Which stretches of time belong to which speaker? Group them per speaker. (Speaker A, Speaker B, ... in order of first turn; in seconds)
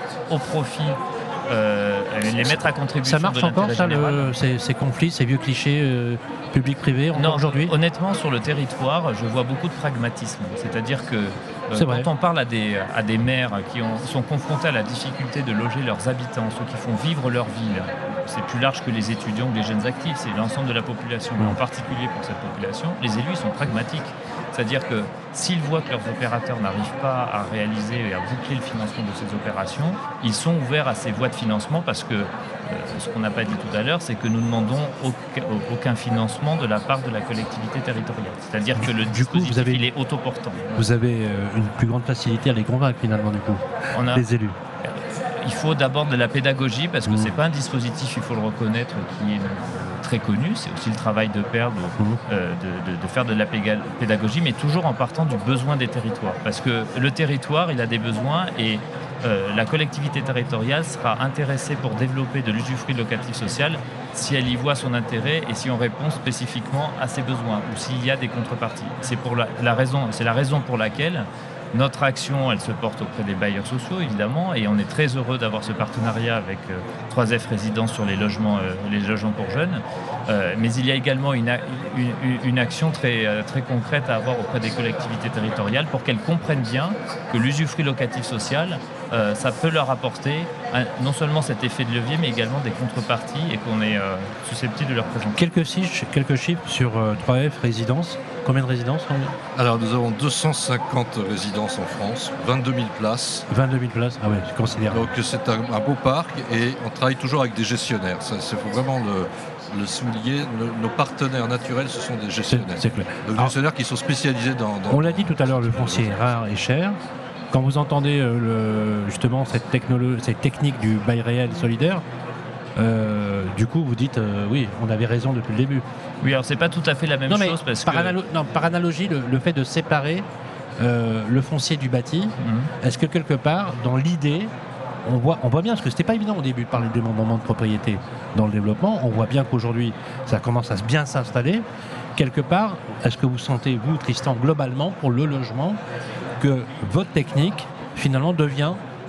Speaker A: 0.3-4.3, 7.1-40.9, 43.9-44.2, 44.8-95.4, 126.2-128.2, 132.4-132.7
Speaker B: 2.4-7.7, 11.7-12.1, 38.8-39.9, 40.8-44.6, 47.0-47.3, 95.3-99.3, 103.5-105.0, 112.5-113.5, 114.9-117.0, 117.5-122.0, 122.8-125.8, 127.3-130.2, 130.8-134.5, 135.1-141.6, 142.2-145.8, 146.4-148.8
Speaker C: 99.5-103.5, 104.9-116.4